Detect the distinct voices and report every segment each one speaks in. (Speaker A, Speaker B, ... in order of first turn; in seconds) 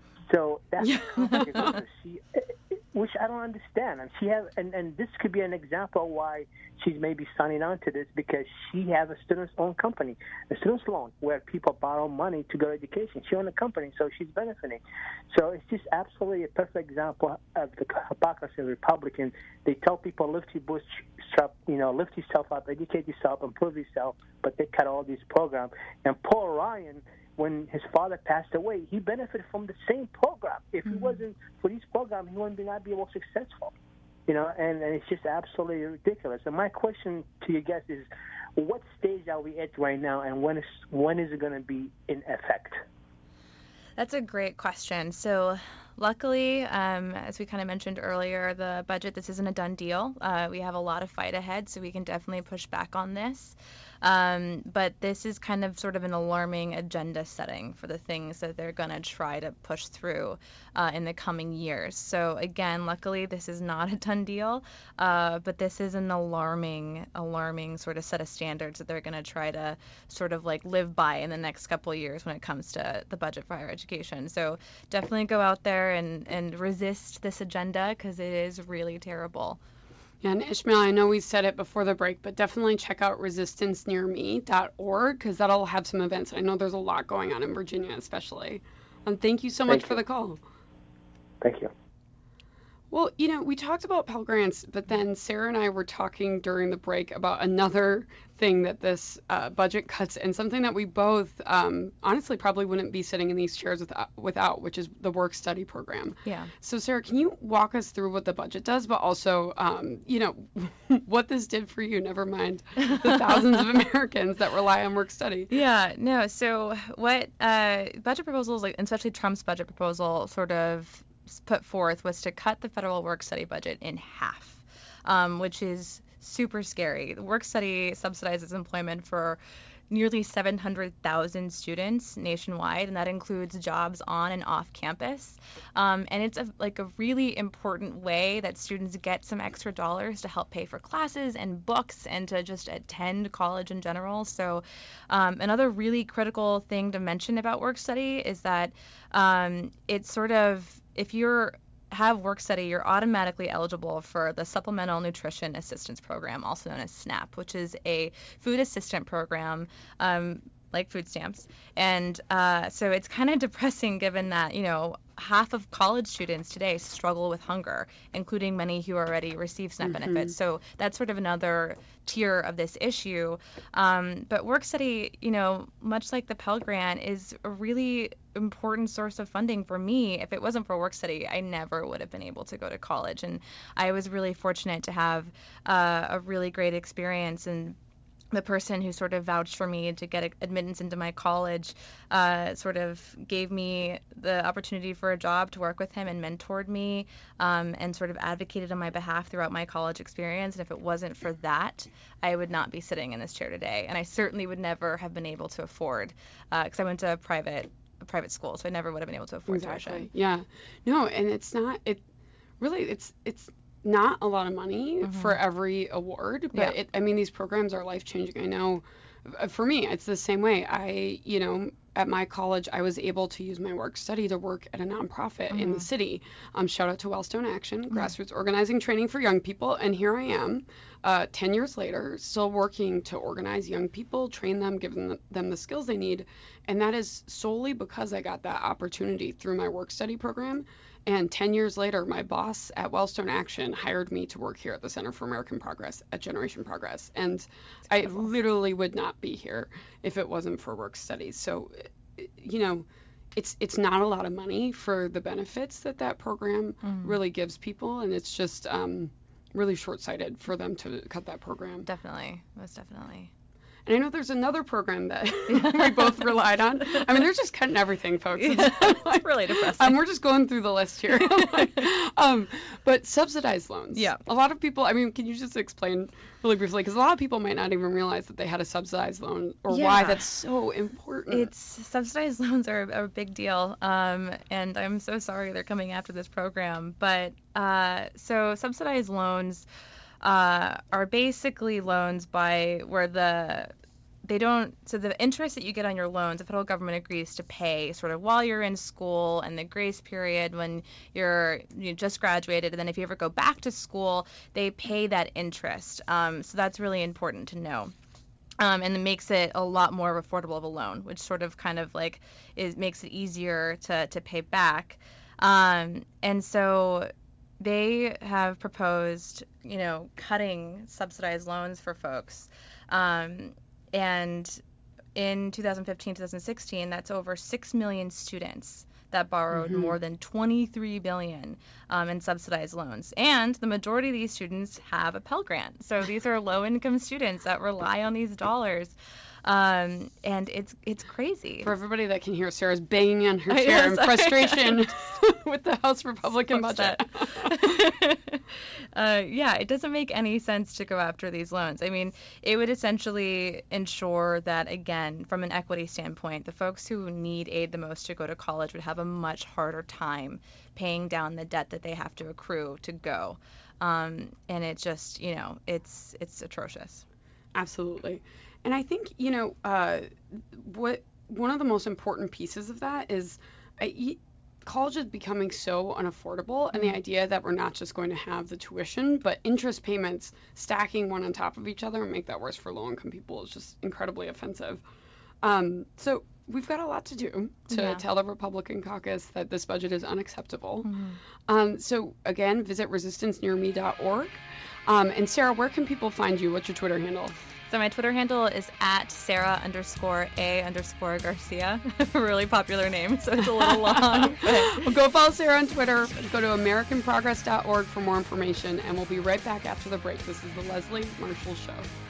Speaker A: 0.2-33.7, 34.3-42.8, 89.7-90.0, 91.4-91.7
Speaker B: 1.1-1.8, 80.2-90.4, 92.9-115.5, 169.8-170.3, 209.5-212.0, 212.6-261.9, 263.9-281.5, 329.5-329.9, 341.6-347.6, 367.5-384.8, 385.4-390.9, 391.5-397.4, 403.6-411.9
Speaker C: 1.3-1.7, 30.9-31.1, 44.0-79.6, 106.2-106.5, 115.5-187.8, 188.3-210.1, 215.0-215.4, 225.5-225.9, 256.8-257.2, 261.9-263.3, 265.5-267.2, 268.3-270.0, 271.4-271.6, 273.9-274.2, 279.7-280.3, 281.3-289.6, 290.2-293.7, 294.2-307.9, 308.6-324.6, 325.1-338.9, 339.4-341.7, 343.5-344.8, 346.5-348.4, 348.9-367.0, 387.7-388.0, 390.8-391.2, 397.7-404.9